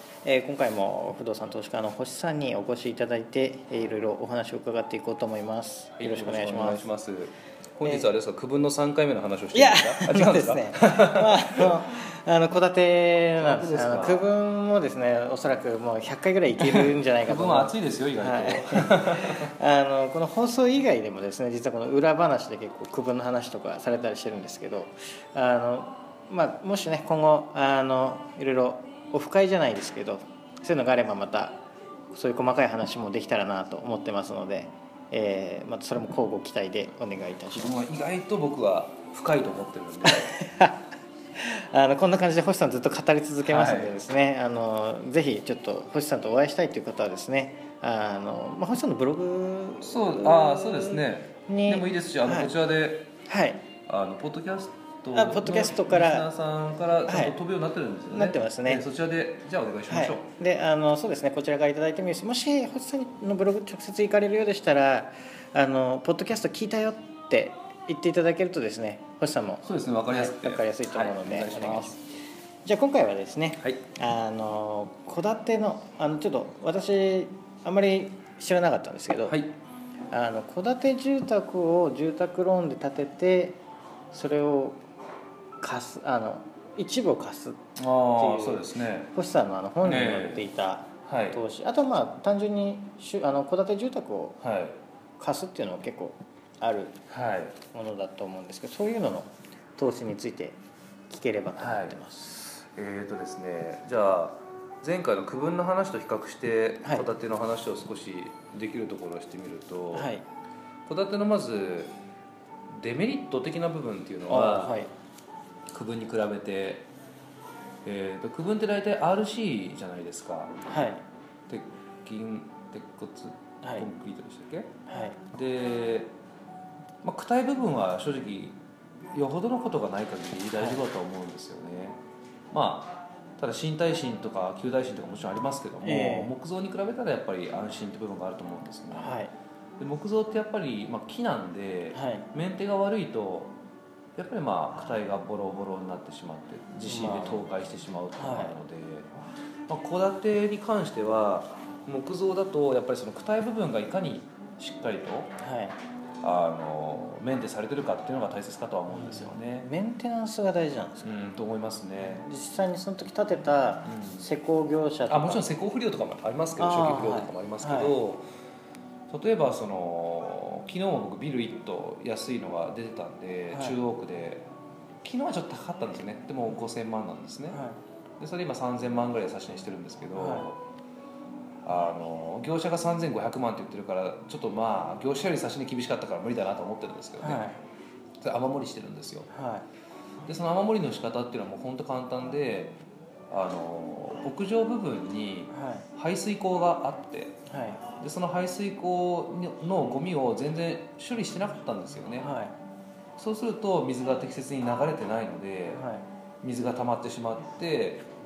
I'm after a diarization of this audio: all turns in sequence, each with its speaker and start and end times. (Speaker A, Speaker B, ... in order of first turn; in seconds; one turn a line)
Speaker A: 0.2-6.9
Speaker B: 5.9-11.8
Speaker A: 9.5-31.6
Speaker B: 13.4-14.3
Speaker B: 16.6-19.5
Speaker A: 32.1-37.8
Speaker B: 37.5-40.3
Speaker A: 40.0-40.9
Speaker A: 41.4-52.5
Speaker B: 43.4-44.0
Speaker B: 49.8-53.1
Speaker A: 53.2-53.6
Speaker B: 53.9-60.2
Speaker A: 55.1-56.3
Speaker A: 57.1-57.4
Speaker A: 58.1-58.8
Speaker A: 59.9-72.0
Speaker B: 69.6-72.0
Speaker A: 72.6-79.4
Speaker B: 79.2-79.5
Speaker A: 80.1-83.6
Speaker A: 84.1-84.8
Speaker A: 85.6-87.6
Speaker B: 87.8-89.1
Speaker A: 88.1-94.4
Speaker B: 89.8-90.5
Speaker B: 91.1-91.4
Speaker B: 94.4-94.8
Speaker A: 95.2-96.9
Speaker B: 97.1-97.6
Speaker A: 97.7-100.6
Speaker A: 101.1-102.6
Speaker B: 101.6-102.0
Speaker B: 102.7-110.1
Speaker A: 109.9-110.2
Speaker B: 110.9-111.9
Speaker B: 112.7-114.8
Speaker A: 114.3-114.9
Speaker B: 115.7-116.8
Speaker B: 117.8-120.5
Speaker A: 120.7-121.0
Speaker B: 121.5-124.7
Speaker A: 124.9-125.2
Speaker B: 125.3-126.1
Speaker B: 127.0-128.6
Speaker B: 129.1-132.0
Speaker A: 130.6-130.8
Speaker B: 132.5-139.2
Speaker A: 135.8-136.3
Speaker A: 138.9-139.3
Speaker B: 139.8-143.5
Speaker A: 141.9-142.3
Speaker B: 144.2-149.1
Speaker A: 146.8-147.5
Speaker A: 148.2-148.6
Speaker B: 149.7-155.3
Speaker A: 155.4-155.8
Speaker B: 156.2-159.7
Speaker A: 158.9-161.2
Speaker B: 161.0-162.2
Speaker A: 162.0-165.4
Speaker B: 163.8-164.3
Speaker B: 165.1-168.2
Speaker A: 166.6-167.9
Speaker B: 169.1-174.4
Speaker A: 173.5-173.8
Speaker B: 175.0-177.6
Speaker A: 177.5-177.8
Speaker B: 178.2-180.6
Speaker A: 180.1-180.5
Speaker B: 181.6-187.5
Speaker A: 187.2-187.6
Speaker B: 188.2-189.3
Speaker A: 189.3-189.6
Speaker B: 190.2-192.8
Speaker B: 193.3-197.3
Speaker A: 195.5-195.8
Speaker A: 197.5-197.8
Speaker B: 198.0-202.3
Speaker A: 202.2-202.6
Speaker B: 203.2-205.8
Speaker A: 205.7-206.1
Speaker B: 206.4-208.0